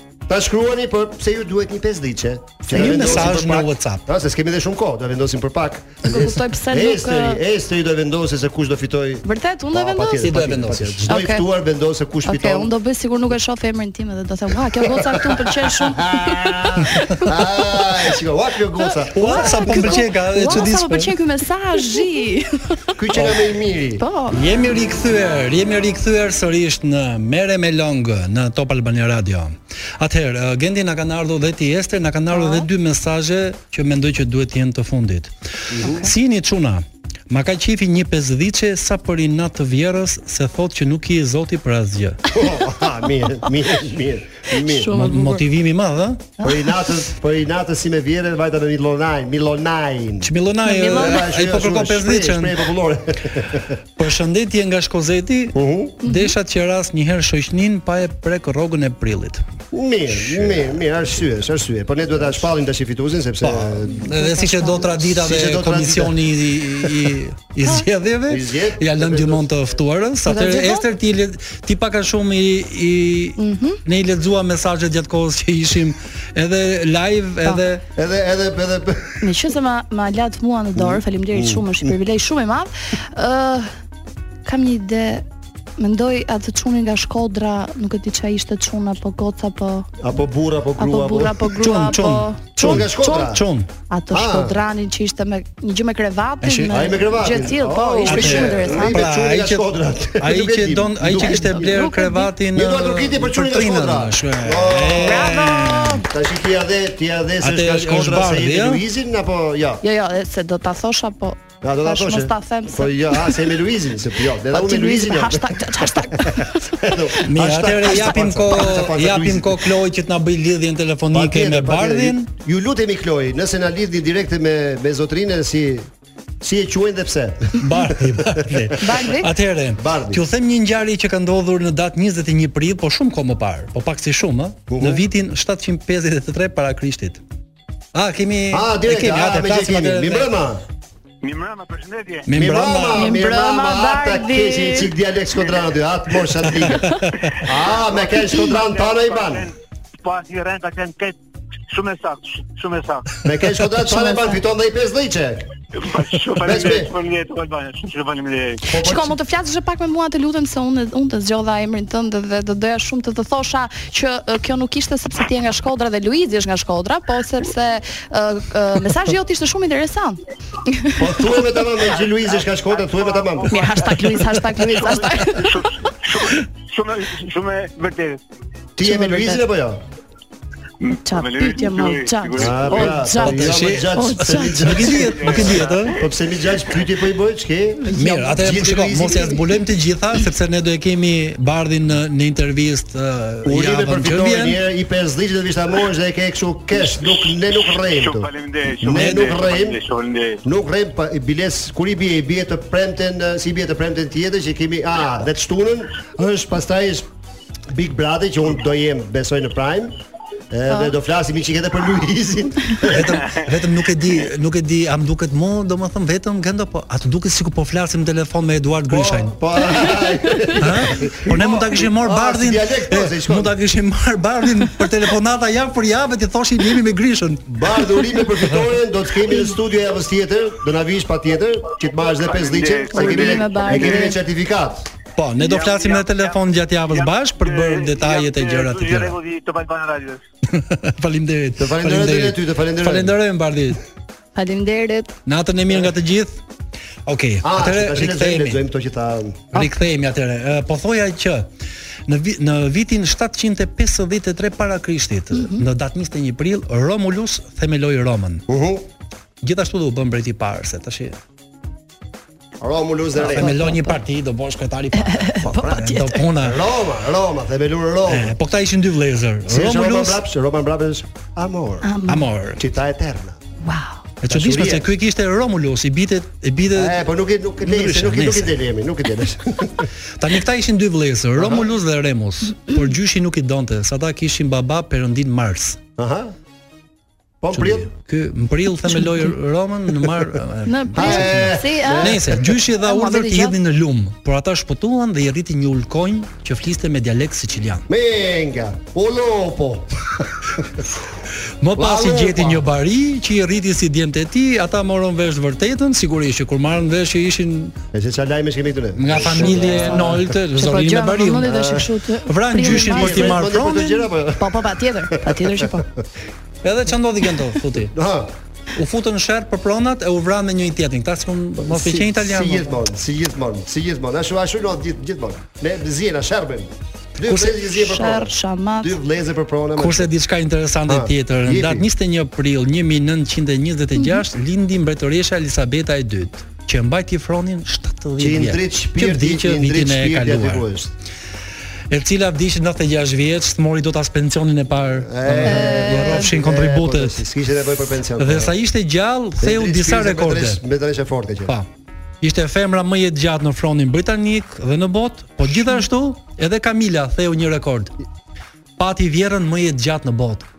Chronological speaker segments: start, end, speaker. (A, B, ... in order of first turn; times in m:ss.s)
0:00.3-0:12.7 A
0:02.7-0:04.0 B
0:06.0-0:07.4 C
0:09.2-0:10.3 C
0:10.2-0:11.1 B
0:11.0-0:11.5 C
0:12.2-0:17.3 C
0:14.8-0:20.0 A
0:17.0-0:17.2 B
0:18.8-0:22.5 C
0:19.1-0:21.1 B
0:23.0-0:24.0 A
0:24.0-0:24.4 C
0:24.3-0:42.2 B
0:32.3-0:32.7 C
0:35.7-0:36.1 A
0:42.3-0:44.9 A
0:44.5-0:45.4 C
0:44.9-0:46.3 B
0:46.4-0:46.7 C
0:46.4-0:50.3 A
0:50.2-0:52.6 B
0:50.6-0:51.3 C
0:50.9-0:53.8 A
0:54.0-0:59.4 B
0:55.6-0:56.0 A
0:56.0-0:56.3 C
0:59.7-1:04.1 A
1:00.2-1:00.6 B
1:03.4-1:17.8 B
1:04.1-1:04.9 C
1:05.0-1:06.2 A
1:08.3-1:09.8 A
1:10.3-1:10.9 C
1:13.4-1:13.8 C
1:18.0-1:19.2 A
1:19.2-1:23.7 C
1:20.8-1:21.9 A
1:24.4-1:25.2 C
1:25.8-1:29.9 C
1:30.0-1:31.6 A
1:30.8-1:33.4 C
1:31.6-1:33.7 B
1:32.6-1:33.4 A
1:33.9-1:39.0 C
1:34.1-1:34.6 A
1:36.4-1:36.8 B
1:36.7-1:41.8 A
1:38.0-1:39.7 B
1:40.2-1:46.0 B
1:41.2-1:42.3 C
1:42.5-1:45.4 A
1:45.0-1:46.0 C
1:46.0-1:49.8 A
1:47.4-1:48.8 B
1:49.8-1:53.5 C
1:51.6-1:59.7 A
1:54.5-1:56.9 C
1:57.2-2:02.3 B
2:01.1-2:05.9 A
2:06.4-2:08.7 A
2:07.6-2:17.2 B
2:08.8-2:09.3 C
2:09.8-2:10.2 A
2:14.7-2:15.0 A
2:17.9-2:20.3 B
2:18.5-2:20.6 A
2:21.2-2:22.3 D
2:22.3-2:23.2 B
2:22.3-2:29.5 A
2:22.9-2:24.9 C
2:25.4-2:25.7 D
2:26.6-2:27.4 B
2:27.7-2:31.2 D
2:31.7-2:33.2 D
2:33.2-2:35.5 A
2:33.8-2:34.4 C
2:35.7-2:38.7 D
2:36.4-2:36.9 A
2:38.7-2:39.2 A
2:38.7-2:51.1 C
2:51.0-2:53.7 A
2:51.9-2:58.2 D
2:53.5-2:55.6 C
2:58.8-2:59.8 A
2:58.8-2:59.5 C
3:00.8-3:02.9 D
3:01.0-3:05.0 C
3:02.4-3:09.4 A
3:02.8-3:06.0 B
3:05.0-3:06.8 D
3:07.9-3:08.4 C
3:07.9-3:14.6 B
3:13.4-3:19.8 A
3:17.7-3:20.4 D
3:18.9-3:19.3 B
3:20.4-3:27.1 A
3:27.7-3:30.0 A
3:30.5-3:33.3 A
3:30.7-3:31.0 C
3:32.8-3:39.4 B
3:38.9-3:43.5 A
3:39.8-3:40.4 C
3:40.6-3:47.5 B
3:47.5-3:54.9 A
3:52.0-3:54.1 D
3:52.9-3:54.2 C
3:55.2-3:59.2 B
3:55.4-4:00.2 D
4:00.5-4:03.8 B
4:01.6-4:03.2 A
4:04.4-4:05.2 C
4:05.3-4:06.4 B
4:07.1-4:08.6 B
4:07.4-4:09.6 A
4:09.5-4:11.5 B
4:12.1-4:18.4 B
4:15.3-4:15.6 C
4:18.5-4:18.8 A
4:19.4-4:21.2 B
4:22.6-4:23.7 A
4:23.2-4:26.6 B
4:23.3-4:24.0 C
4:25.0-4:26.2 C
4:25.5-4:25.8 A
4:26.4-4:28.4 A
4:28.1-4:30.2 B
4:29.5-4:31.9 A
4:31.8-4:32.3 C
4:32.1-4:32.6 B
4:32.6-4:33.4 A
4:33.6-4:34.1 C
4:34.2-4:37.0 B
4:34.3-4:34.9 A
4:36.8-4:39.9 A
4:37.6-4:38.6 B
4:40.2-4:45.8 B
4:41.4-4:41.7 A
4:46.0-4:46.3 A
4:47.4-4:47.9 A
4:47.5-4:57.9 B
4:48.9-4:49.3 C
4:50.7-4:53.6 C
4:50.9-4:52.6 A
4:57.9-5:00.9 A
5:01.6-5:07.8 B
5:01.8-5:02.7 A
5:07.9-5:10.4 A
5:09.0-5:11.5 B
5:09.4-5:13.4 C
5:11.4-5:11.9 A
5:12.3-5:14.0 B
5:12.5-5:15.8 A
5:14.4-5:15.9 C
5:16.6-5:18.0 B
5:17.9-5:18.3 A
5:18.8-5:22.7 B
5:21.6-5:30.1 A
5:27.3-5:27.6 B
5:27.6-5:29.0 C
5:29.8-5:40.7 B
5:30.9-5:31.9 A
5:38.2-5:40.9 A
5:41.9-5:47.2 B
5:45.0-5:48.5 A
5:45.4-5:46.4 C
5:48.2-5:50.6 B
5:49.4-5:51.6 A
5:52.2-5:57.9 B
5:58.8-6:00.5 B